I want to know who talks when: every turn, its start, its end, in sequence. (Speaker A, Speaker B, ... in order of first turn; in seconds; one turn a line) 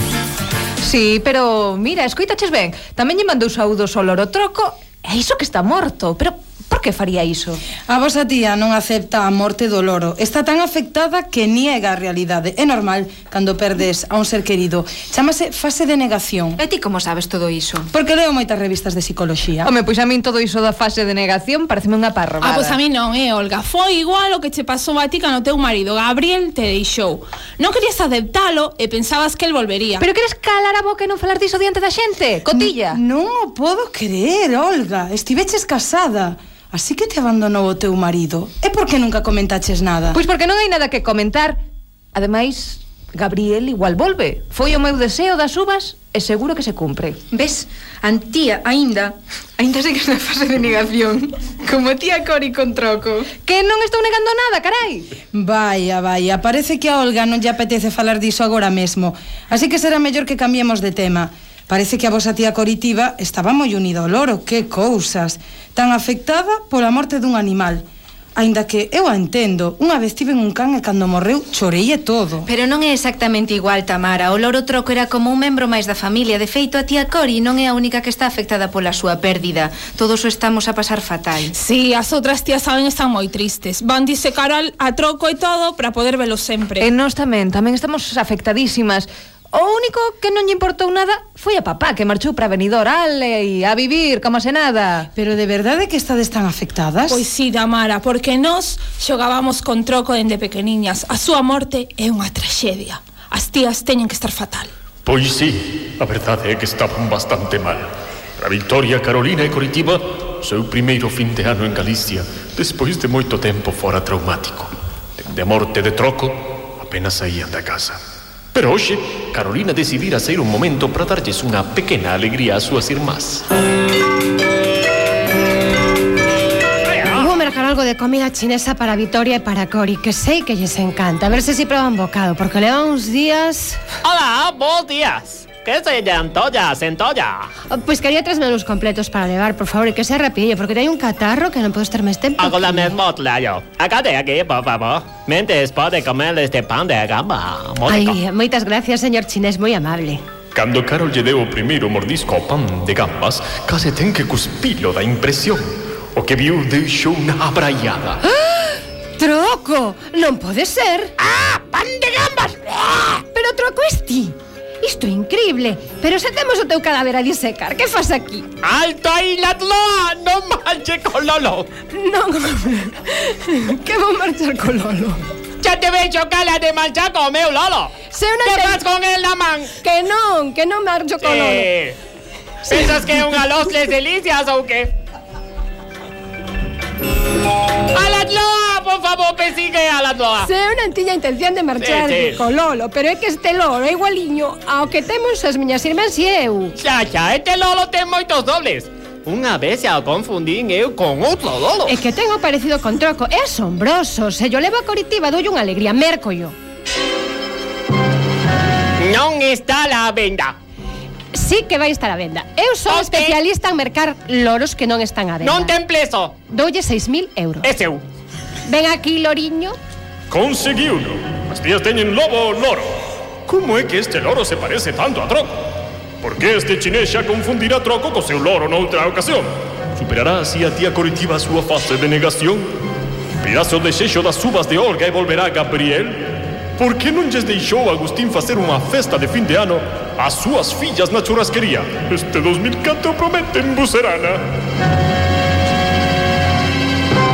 Speaker A: 0.8-7.6
Speaker B: 7.8-16.6
Speaker C: 16.6-17.9
Speaker B: 17.9-19.7
Speaker A: 19.6-22.8
Speaker D: 22.4-30.1
Speaker A: 30.0-33.0
Speaker B: 32.5-40.2
Speaker A: 40.1-41.6
Speaker A: 42.1-47.2
Speaker C: 47.3-53.3
Speaker A: 53.4-55.1
Speaker B: 55.3-67.8
Speaker B: 68.4-72.5
Speaker C: 72.5-81.6
Speaker D: 81.5-86.9
Speaker A: 86.8-95.1
Speaker B: 95.2-97.2
Speaker D: 97.1-104.7
Speaker E: 105.0-118.0
Speaker E: 118.5-123.4
Speaker F: 126.9-127.3
Speaker G: 127.1-133.8
Speaker F: 134.0-137.5
Speaker G: 137.7-143.0
Speaker F: 142.4-148.2
Speaker G: 147.9-150.2
Speaker E: 150.5-158.2
Speaker G: 158.5-161.1
Speaker F: 161.2-163.2
Speaker G: 163.3-168.5
Speaker F: 168.6-171.7
Speaker G: 171.9-175.2
Speaker F: 175.6-177.9
Speaker G: 178.1-178.8
Speaker F: 178.4-179.7
Speaker G: 179.8-181.7
Speaker F: 181.2-182.0
Speaker F: 182.7-184.9
Speaker G: 182.7-183.4
Speaker F: 187.9-190.5
Speaker G: 190.4-196.8
Speaker F: 191.8-192.4
Speaker F: 196.8-201.9
Speaker G: 201.9-206.6
Speaker F: 209.0-210.6
Speaker G: 211.3-215.8
Speaker F: 212.9-213.4
Speaker F: 215.4-216.3
Speaker G: 216.5-217.7
Speaker F: 217.6-218.0
Speaker G: 218.7-219.8
Speaker E: 220.3-222.9
Speaker E: 223.5-225.5
Speaker E: 226.2-232.7
Speaker E: 233.4-236.2
Speaker E: 236.8-244.4